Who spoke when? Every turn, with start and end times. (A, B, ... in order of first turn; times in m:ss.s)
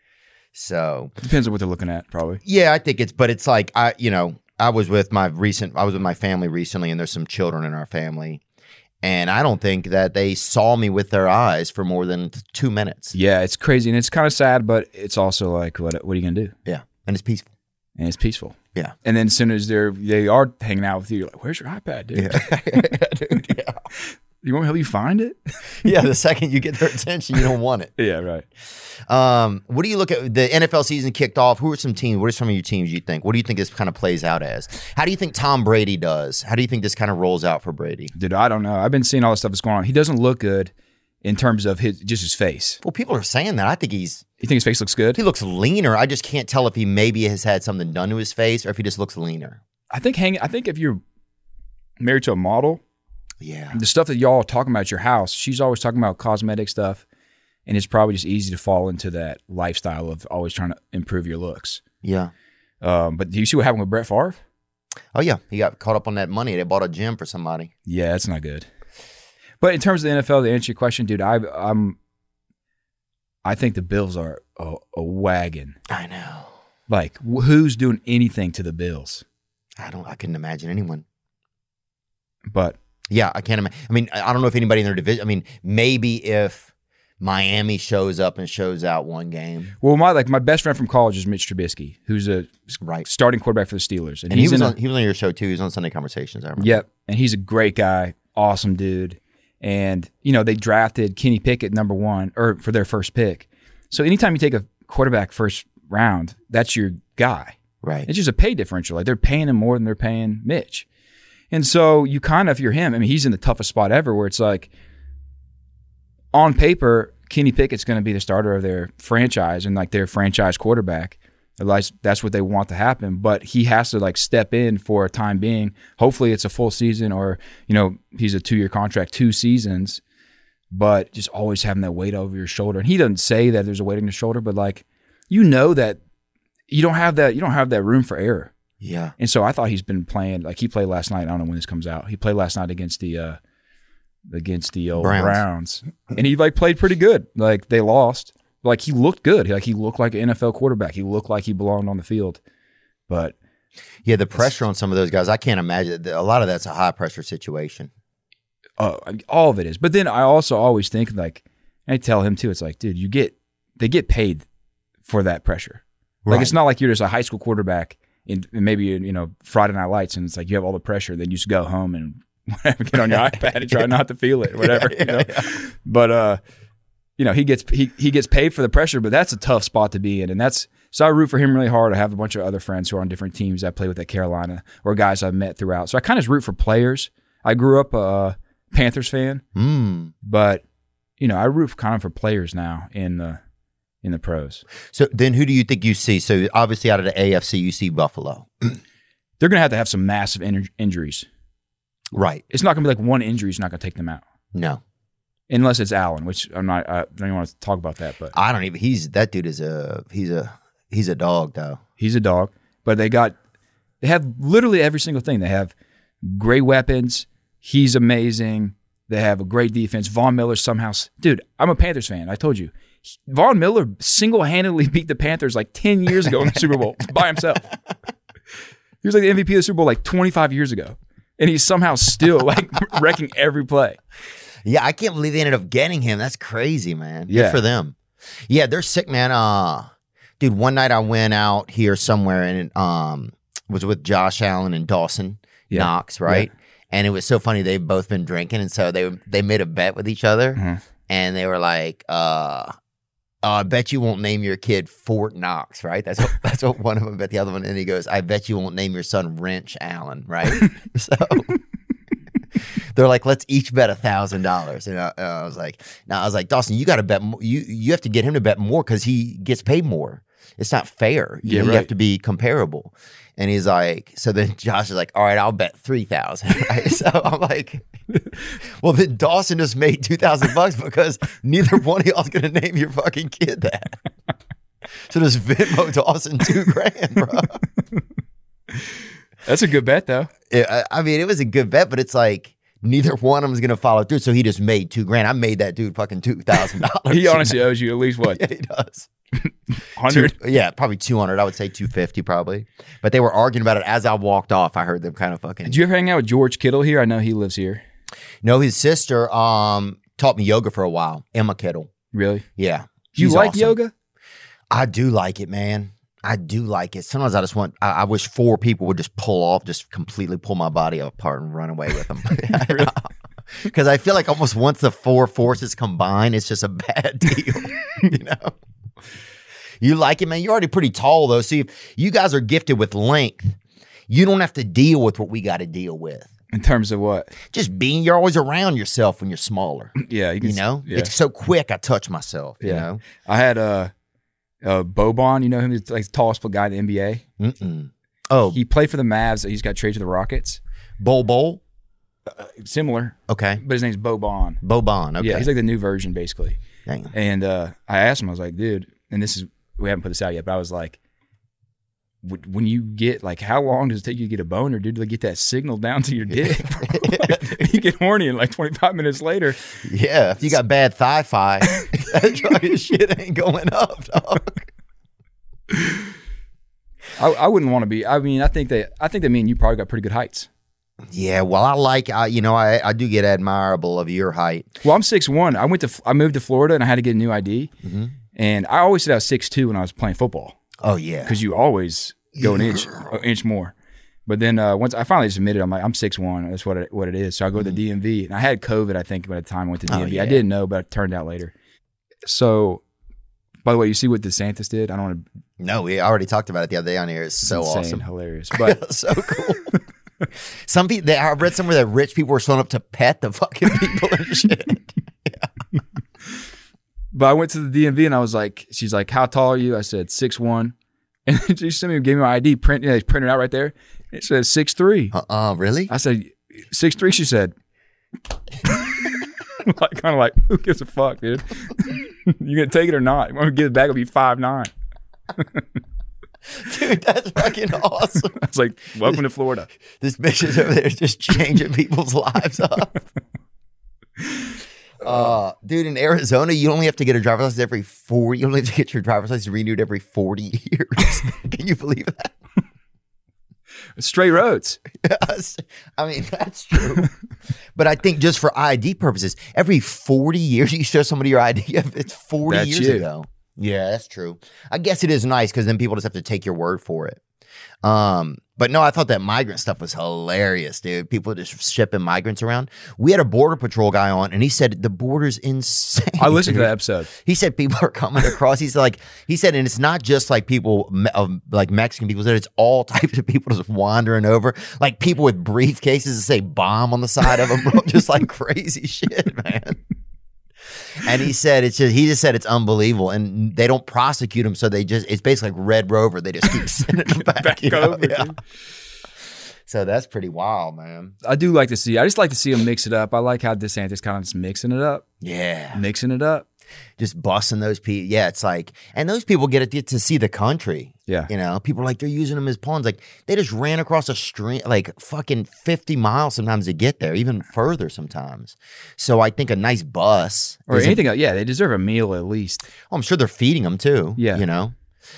0:00.5-0:01.1 A
0:01.2-0:02.4 B
0:02.4-0:08.4 A
0:09.0-0:13.1 A
0:13.1-0:16.5 B
0:16.6-0:17.5 A
0:18.0-0:22.9 B
0:22.1-0:23.8 A
0:24.4-0:25.5 B
0:25.8-0:27.9 A
0:28.0-0:28.4 B
0:29.1-0:38.1 A
0:38.1-0:40.7 B
0:41.2-0:42.8 B
0:42.8-0:44.2 A
0:44.4-0:45.2 B
0:45.1-0:49.6 A
0:49.9-0:51.0 B
0:52.0-0:52.8 B
0:53.4-0:53.8 A
0:53.7-0:57.0 B
0:57.6-1:01.8 B
1:02.0-1:02.3 A
1:02.8-1:04.4 B
1:05.1-1:07.7 A
1:07.8-1:08.7 B
1:09.6-1:12.0 B
1:13.4-1:15.8 B
1:15.9-1:16.5 A
1:16.9-1:19.2 B
1:19.8-1:21.0 A
1:22.5-1:22.8 B
1:23.1-1:26.7 A
1:27.2-1:29.7 A
1:29.8-1:34.8 B
1:32.8-1:33.1 A
1:34.3-1:36.8 A
1:36.6-1:50.8 B
1:47.8-1:48.1 A
1:51.5-1:54.7 B
1:56.3-2:10.0 B
2:10.7-2:16.0 B
2:16.7-2:18.5 B
2:18.8-2:19.1 A
2:19.2-2:23.4 B
2:24.3-2:32.4 B
2:25.0-2:25.4 A
2:33.1-2:33.4 B
2:34.0-2:37.9 A
2:38.8-2:44.4 B
2:45.0-2:56.4 B
2:46.2-2:46.5 A
2:53.1-2:53.9 A
2:54.6-2:55.5 A
2:57.2-3:09.4 B
3:09.5-3:10.1 A
3:10.2-3:10.6 B
3:11.2-3:13.4 B
3:14.0-3:14.6 B
3:14.9-3:18.8 A
3:19.4-3:21.3 B
3:22.1-3:22.4 A
3:22.5-3:24.2 B
3:24.5-3:24.8 A
3:25.5-3:28.3 B
3:28.3-3:31.8 A
3:32.0-3:33.3 B
3:34.0-3:47.7 B
3:49.0-3:54.0 B
3:54.6-3:57.9 A
3:57.3-3:57.6 B
3:58.5-4:12.7 A
4:05.7-4:06.5 B
4:10.6-4:10.8 B
4:13.4-4:21.6 A
4:22.9-4:37.8 A
4:31.4-4:31.9 B
4:38.7-4:44.0 A
4:45.1-4:47.6 A
4:49.4-4:50.3 B
4:50.5-4:57.6 A
4:57.1-4:58.4 B
4:58.3-4:59.1 A
4:59.9-5:00.4 B
5:00.0-5:05.8 A
5:05.6-5:07.8 B
5:08.4-5:11.9 A
5:12.1-5:12.4 B
5:12.6-5:13.8 A
5:13.1-5:13.9 B
5:14.7-5:28.5 A
5:22.5-5:22.9 B
5:29.8-5:33.6 A
5:34.1-5:36.3 A
5:36.5-5:37.3 B
5:37.5-5:43.0 A
5:40.0-5:41.1 B
5:42.6-5:43.9 B
5:44.6-5:47.2 B
5:47.4-5:48.6 A
5:48.5-5:50.6 B
5:51.0-5:51.6 A
5:52.3-5:54.6 B
5:53.3-5:53.6 A
5:54.6-5:55.5 A
5:55.2-5:56.6 B
5:56.9-5:57.1 A
5:57.1-6:01.0 B
6:02.2-6:09.6 B
6:06.4-6:07.8 A
6:09.8-6:14.7 A
6:17.2-6:20.5 B
6:21.1-6:24.7 A
6:24.8-6:27.7 B
6:27.8-6:28.1 A
6:28.3-6:30.6 B
6:30.8-6:31.4 A
6:31.2-6:33.7 B
6:32.4-6:33.1 A
6:34.2-6:41.5 B
6:39.9-6:40.4 A
6:42.2-6:42.8 B
6:43.6-6:45.2 B
6:45.6-6:49.7 A
6:47.4-6:48.8 B
6:50.6-6:55.5 A
6:57.1-7:00.7 B
7:01.2-7:05.1 B
7:05.1-7:05.9 A
7:05.9-7:07.5 B
7:08.6-7:14.7 B
7:15.4-7:15.6 B
7:16.5-7:18.4 A
7:18.3-7:19.7 B
7:20.0-7:22.9 A
7:25.0-7:32.3 A
7:34.0-7:34.8 B
7:34.9-7:37.1 A
7:37.8-7:47.2 A
7:42.4-7:43.1 B
7:47.8-8:09.8 A
7:56.2-7:57.1 B
8:11.0-8:18.3 A
8:17.1-8:18.4 B
8:19.7-8:21.1 A
8:21.2-8:25.0 B
8:25.2-8:25.8 A
8:25.7-8:26.4 B
8:27.0-8:41.0 A
8:40.7-8:42.7 B
8:42.9-8:44.7 A
8:44.2-8:44.4 B